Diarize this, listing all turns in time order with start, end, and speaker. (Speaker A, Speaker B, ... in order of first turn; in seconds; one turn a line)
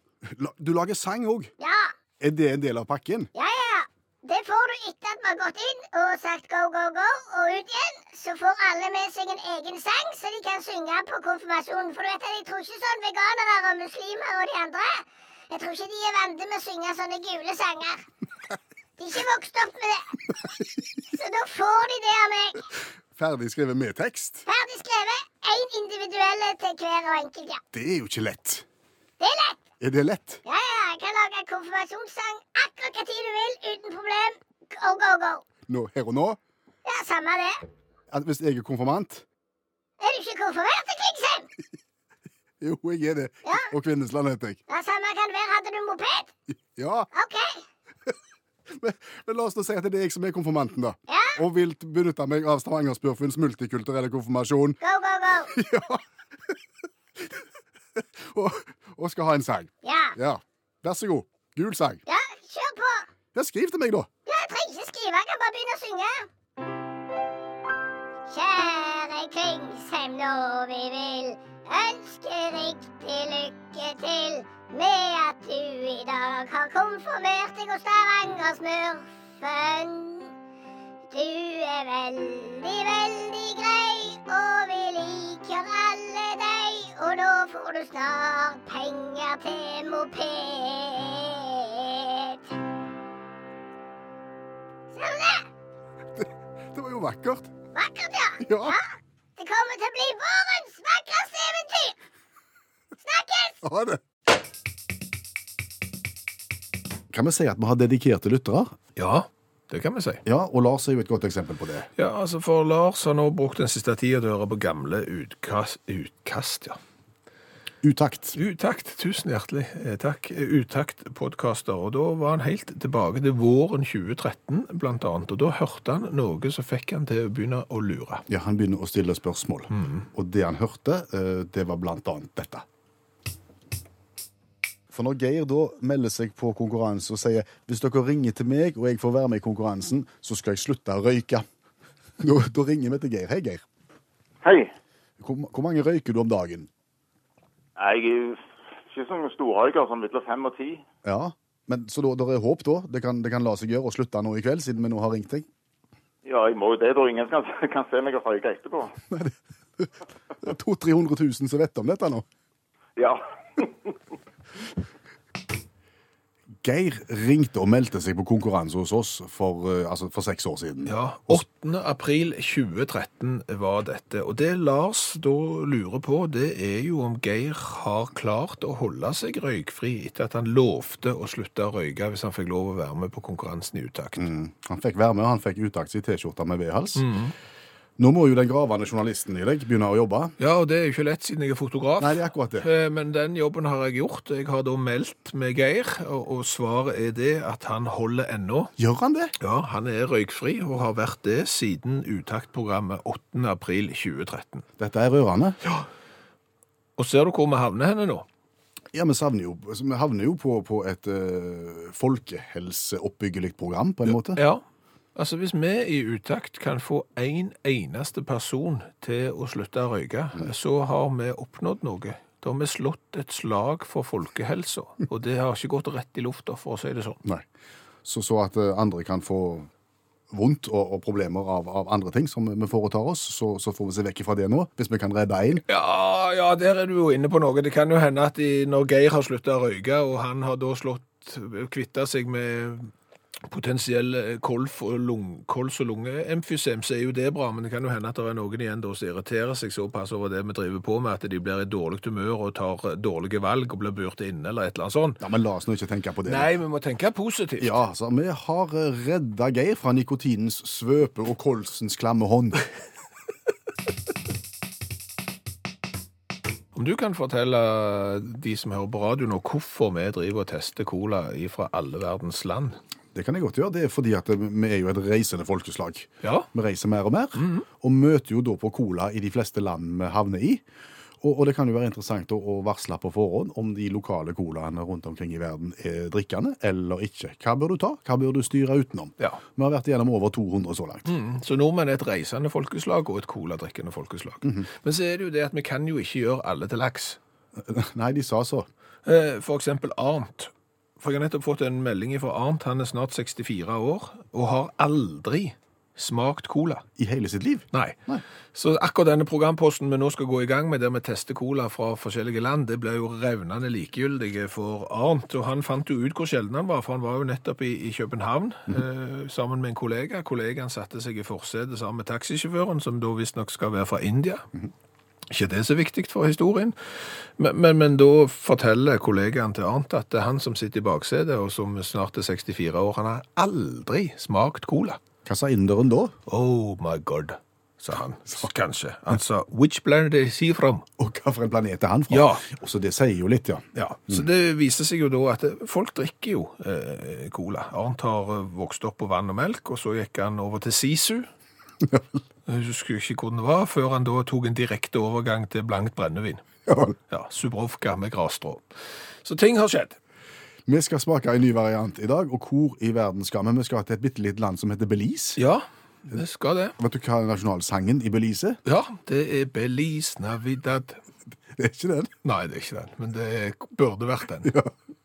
Speaker A: 0.2-1.5
Speaker B: 1.6-1.9
Speaker A: 2.2-3.3
Speaker B: 3.3-18.1
Speaker B: 19.0-20.2
Speaker B: 21.1-22.6
Speaker A: 23.1-24.4
Speaker B: 24.4-27.6
Speaker A: 27.7-28.6
Speaker B: 29.2-29.6
Speaker A: 29.8-30.4
Speaker B: 30.4-35.4
Speaker A: 35.7-36.4
Speaker B: 36.8-37.6
Speaker A: 38.1-39.2
Speaker B: 40.0-41.5
Speaker A: 42.6-44.6
Speaker B: 44.7-46.3
Speaker A: 46.7-47.1
Speaker B: 47.1-47.6
Speaker A: 48.7-54.8
Speaker B: 51.1-51.4
Speaker B: 54.8-55.6
Speaker A: 55.5-56.5
Speaker A: 58.0-62.0
Speaker B: 59.8-60.1
Speaker B: 62.0-63.1
Speaker A: 63.3-64.1
Speaker B: 64.3-66.3
Speaker B: 68.3-80.3
Speaker B: 81.1-92.6
Speaker B: 94.9-95.5
Speaker A: 96.2-97.5
Speaker B: 97.7-98.8
Speaker A: 98.4-98.8
Speaker B: 99.4-102.0
Speaker B: 103.0-103.6
Speaker A: 103.6-104.0
Speaker A: 107.1-108.8
Speaker C: 109.0-110.2
Speaker A: 110.2-111.9
Speaker C: 112.0-116.8
Speaker A: 117.8-118.4
Speaker C: 118.3-128.2
Speaker A: 128.3-132.6
Speaker C: 129.8-130.0
Speaker A: 134.9-141.4
Speaker A: 142.2-143.6
Speaker D: 144.4-144.7
Speaker A: 145.2-146.7
Speaker D: 147.8-150.8
Speaker A: 151.0-155.5
Speaker D: 156.2-158.9
Speaker A: 159.1-162.2
Speaker D: 163.0-163.9
Speaker A: 166.6-171.4
Speaker C: 170.8-184.3
Speaker A: 184.2-187.1
Speaker C: 186.9-187.3
Speaker A: 188.0-190.3
Speaker C: 190.4-198.7
Speaker A: 192.0-192.7
Speaker A: 198.8-199.3
Speaker C: 199.4-204.6
Speaker A: 204.8-205.6
Speaker C: 207.0-208.2
Speaker A: 208.9-214.4
Speaker C: 214.2-214.6
Speaker C: 215.1-227.2
Speaker A: 228.0-229.7
Speaker A: 230.3-235.6
Speaker C: 235.7-242.9
Speaker C: 243.5-255.2
Speaker A: 255.2-256.5
Speaker C: 256.2-257.7
Speaker A: 257.6-262.6
Speaker C: 266.7-272.8
Speaker A: 273.1-280.6
Speaker C: 276.2-276.5
Speaker C: 277.4-277.6
Speaker A: 281.2-291.1
Speaker C: 291.1-297.2
Speaker A: 297.6-298.7
Speaker C: 299.1-306.8
Speaker A: 307.0-308.2
Speaker C: 307.7-308.0
Speaker C: 308.5-324.4
Speaker C: 325.3-326.7
Speaker C: 327.4-335.0
Speaker A: 335.2-336.1
Speaker C: 336.3-340.9
Speaker A: 341.0-344.2
Speaker C: 342.1-342.4
Speaker C: 343.7-351.3
Speaker A: 351.8-352.2
Speaker C: 352.4-356.4
Speaker A: 356.7-356.9
Speaker C: 357.1-358.6
Speaker C: 359.2-360.0
Speaker A: 360.7-365.4
Speaker C: 365.4-366.8
Speaker A: 366.8-368.6
Speaker C: 368.6-371.0
Speaker A: 371.5-372.1
Speaker C: 372.2-374.6
Speaker A: 374.4-374.7